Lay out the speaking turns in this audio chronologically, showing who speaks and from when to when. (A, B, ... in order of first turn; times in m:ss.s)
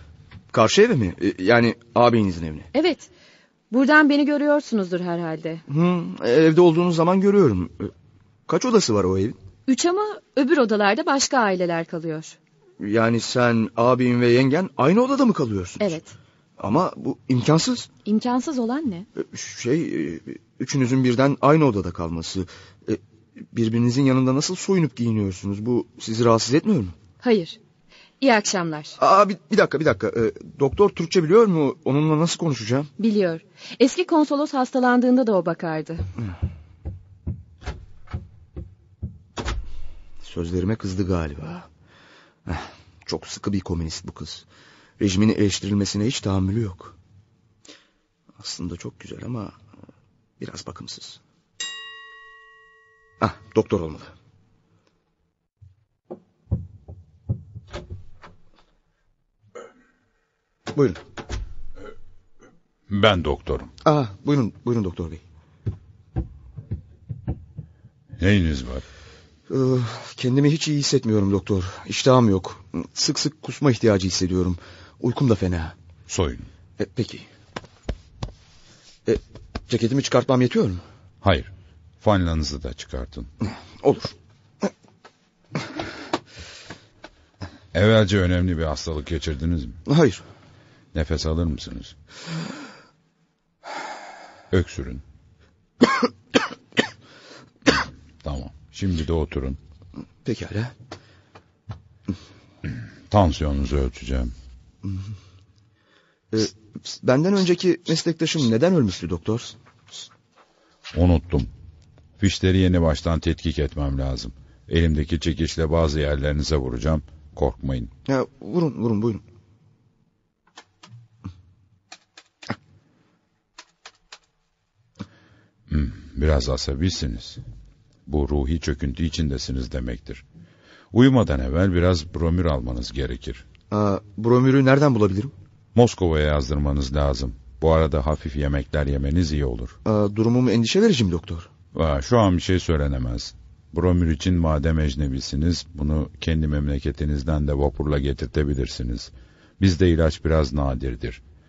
0:00.5-0:02.7 A
0:02.7-0:03.1 B
0:03.7-0:05.6 B
0:05.7-0:07.9 A
0:08.5-0:09.4 A
0:09.7-0:12.4 B
0:12.8-0:16.0 A
0:15.8-0:16.1 B
0:16.6-0:17.9 A
0:18.0-0:19.1 B
0:19.2-0:23.0 A
0:23.5-0:27.0 A
0:27.2-0:27.6 B
0:28.2-0:29.0 B
0:29.0-0:32.9 A
0:33.0-0:36.0 B
0:40.2-0:41.7 A
0:42.5-0:44.4 A
0:45.0-0:47.0 A
0:48.4-0:49.6 A
0:50.4-0:51.2 A
0:53.2-0:54.1 A
1:00.7-1:01.0 A
1:02.9-1:03.7 C
1:03.8-1:05.2 A
1:08.2-1:08.8 C
1:09.5-1:15.7 A
1:16.1-1:16.5 C
1:16.8-1:17.3 A
1:19.1-1:20.8 A
1:21.2-1:21.5 C
1:22.0-1:23.3 C
1:23.8-1:24.7 A
1:27.7-1:29.8 C
1:29.9-1:30.2 A
1:30.9-1:31.9 C
1:34.5-1:35.0 C
1:37.7-1:39.6 C
1:40.2-1:40.7 A
1:43.1-1:44.3 C
1:46.3-1:49.6 A
1:50.9-1:51.5 C
1:52.2-1:57.9 C
1:58.1-1:59.2 A
2:05.7-2:07.4 C
2:08.1-2:10.2 C
2:10.9-2:13.4 C
2:13.7-2:15.3 A
2:15.8-2:19.8 C
2:19.8-2:21.5 A
2:21.7-2:31.2 C